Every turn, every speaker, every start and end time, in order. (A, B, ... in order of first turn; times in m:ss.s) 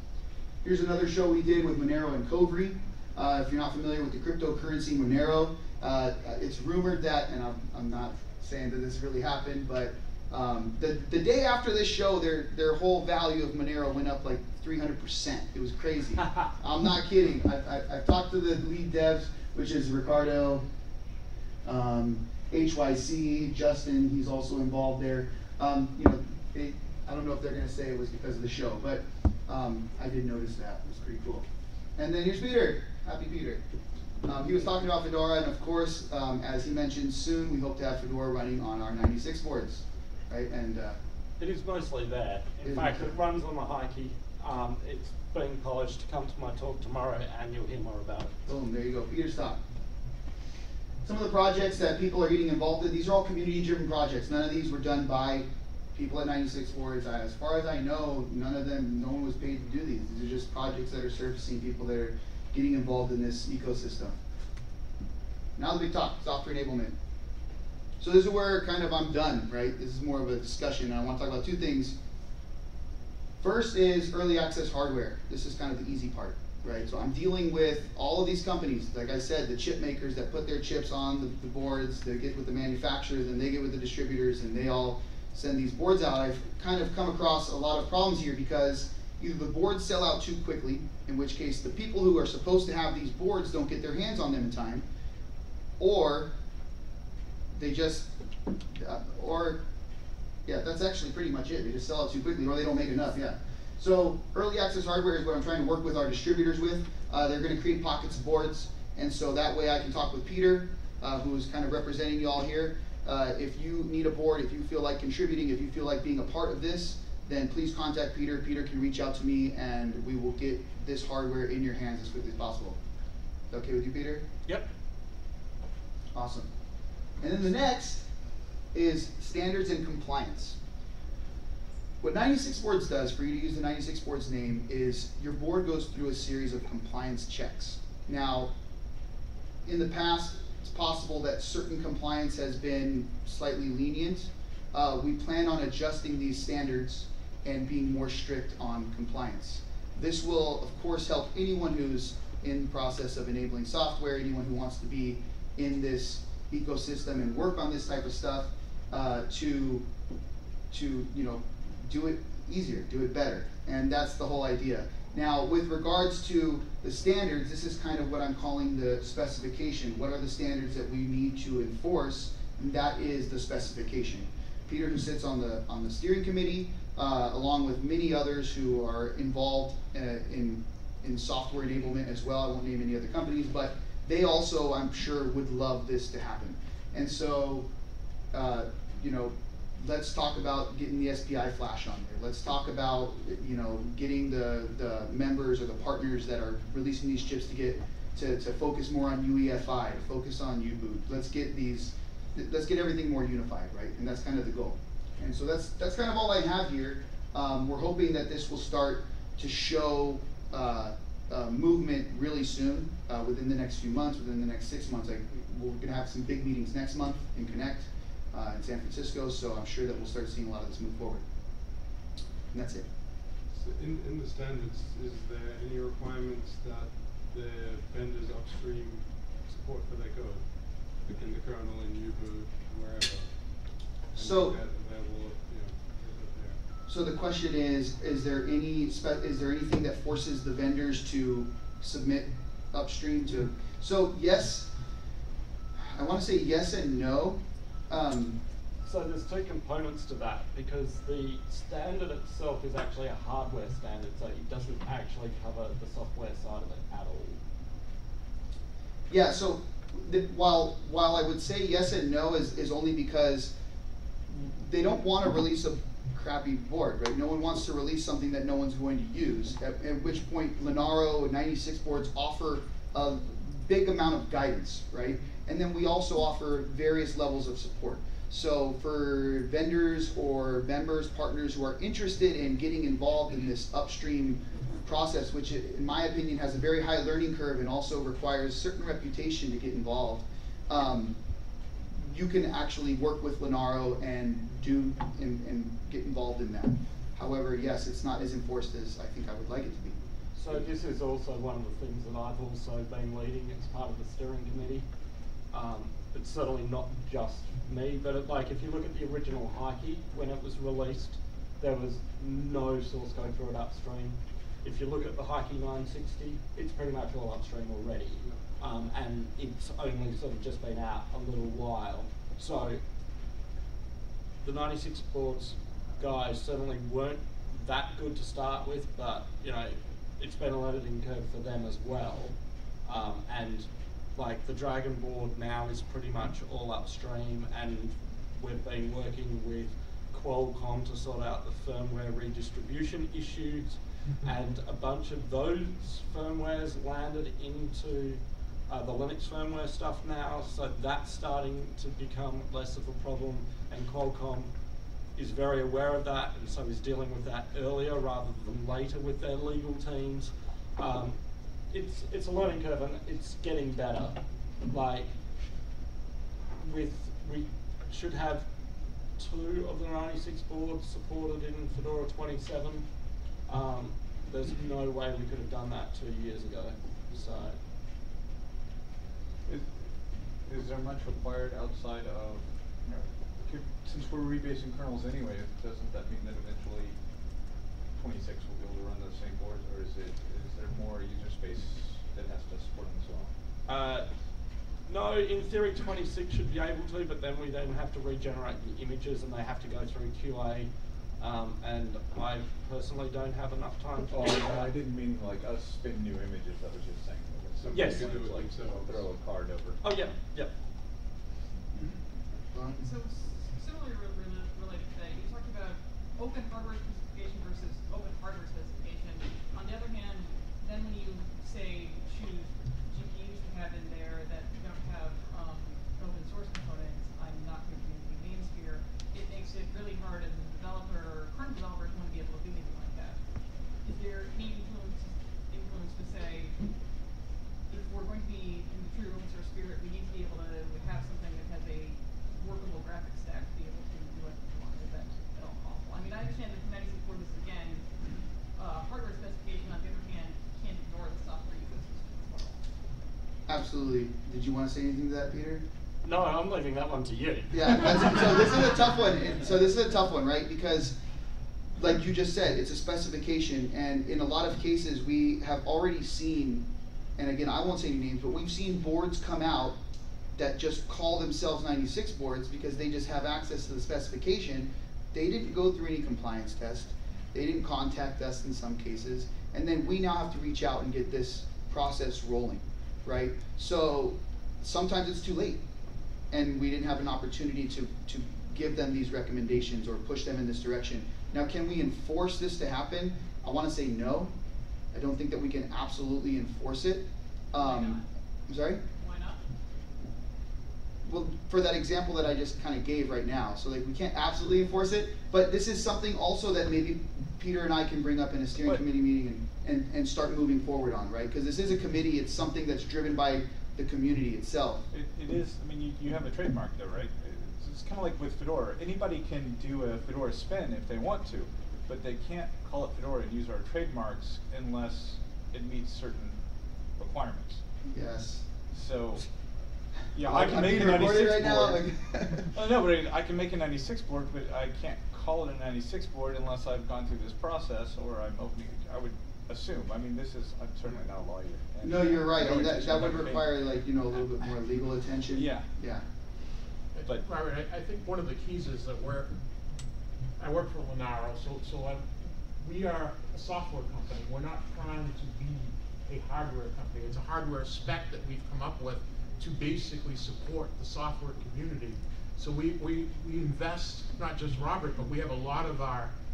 0:00.6-0:20.7 A
0:21.6-0:31.4 A
0:32.0-0:33.6 A
0:34.2-0:41.0 A
0:41.4-0:48.4 B
0:42.6-0:43.1 A
0:48.4-0:49.6 A
0:51.0-1:04.2 A
1:05.6-1:06.9 A
1:08.0-1:12.0 A
1:13.4-1:34.8 A
1:35.8-1:36.3 A
1:37.5-1:38.1 A
1:38.7-1:39.6 A
1:40.4-2:02.8 A
2:03.5-2:04.3 A
2:06.1-2:06.5 A
2:07.2-2:08.1 A
2:08.7-2:10.6 A
2:12.0-2:18.5 A
2:19.6-2:39.8 A
2:40.7-3:07.7 A
3:08.3-3:41.2 A
3:42.5-3:42.9 A
3:43.5-3:56.6 C
3:54.1-3:54.6 A
3:56.9-4:04.7 A
4:05.9-4:08.4 A
4:08.8-4:17.4 B
4:19.1-4:23.6 A
4:24.3-4:51.2 A
4:51.9-5:00.0 A
5:00.4-5:04.8 B
5:05.5-5:22.8 B
5:24.4-5:54.5 B
5:55.1-6:05.1 B
6:06.6-6:08.5 B
6:09.2-6:12.9 B
6:13.4-6:17.6 B
6:19.4-6:27.0 D
6:27.9-6:33.3 D
6:33.6-6:34.1 B
6:34.8-6:44.7 B
6:44.1-6:49.8 D
6:47.6-6:49.0 C
6:47.7-6:48.2 B
6:49.8-6:50.5 B
6:51.7-6:52.8 A
6:52.8-7:13.2 E
7:13.8-7:16.6 E
7:17.7-7:27.9 E
7:28.5-7:32.6 E
7:33.5-7:35.6 A
7:36.0-7:38.5 B
7:37.5-7:41.0 A
7:41.8-7:49.8 A
7:50.4-8:05.6 A
8:06.3-8:14.3 A
8:14.9-8:18.8 A
8:17.5-8:18.0 E
8:18.9-8:19.4 E
8:21.0-8:34.9 A
8:34.9-8:46.4 D
8:47.0-8:47.6 D
8:47.9-8:48.4 A
8:48.7-8:49.3 D
8:50.1-8:51.8 D
8:50.2-8:52.5 A
8:52.4-9:04.6 D
9:01.8-9:06.0 A
9:05.3-9:05.7 D
9:06.9-9:09.3 F
9:10.4-9:26.1 F